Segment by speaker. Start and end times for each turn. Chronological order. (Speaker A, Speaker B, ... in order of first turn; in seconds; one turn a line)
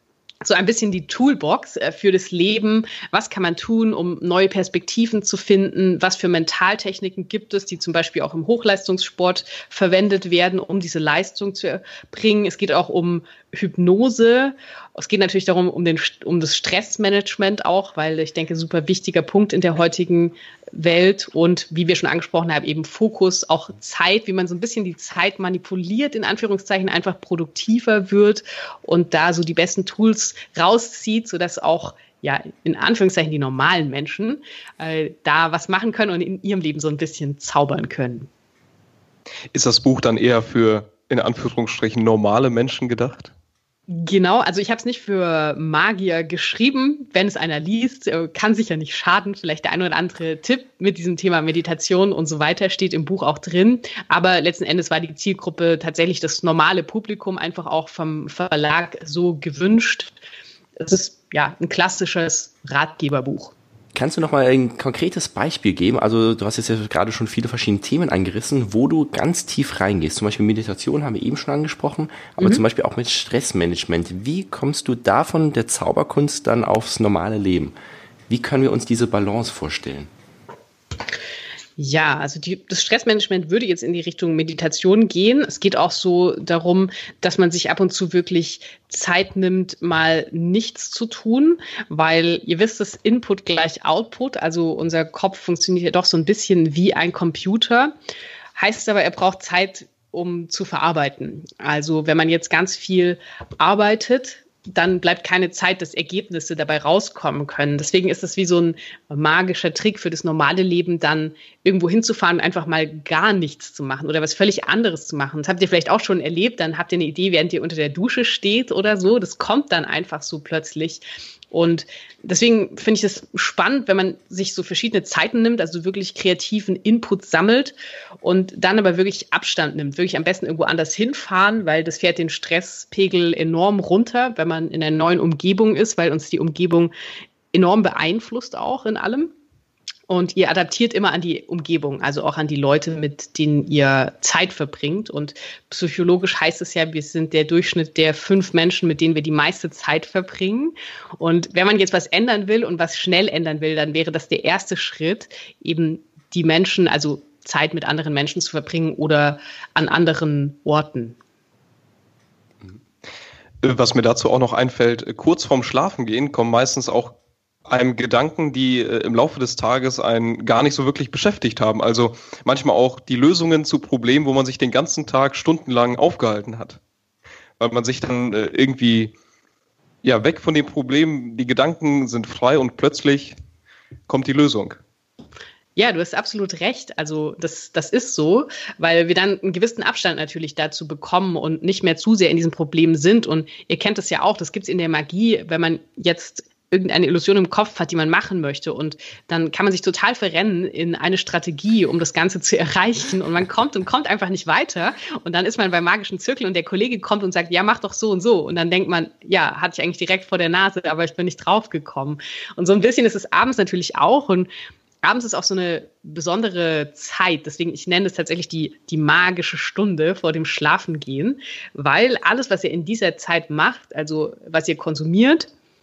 Speaker A: 0.4-38.3
Speaker B: 39.5-43.3
Speaker A: 43.9-60.1
Speaker A: 60.8-63.5
Speaker C: 63.9-77.7
Speaker A: 72.4-72.6
Speaker C: 78.3-80.1
Speaker A: 81.8-97.9
Speaker A: 98.5-136.9
Speaker A: 137.5-139.3
Speaker A: 140.1-161.2
Speaker B: 163.6-176.8
Speaker B: 177.6-179.1
Speaker B: 180.0-183.3
Speaker B: 184.1-184.8
Speaker A: 185.8-214.5
Speaker A: 215.0-225.5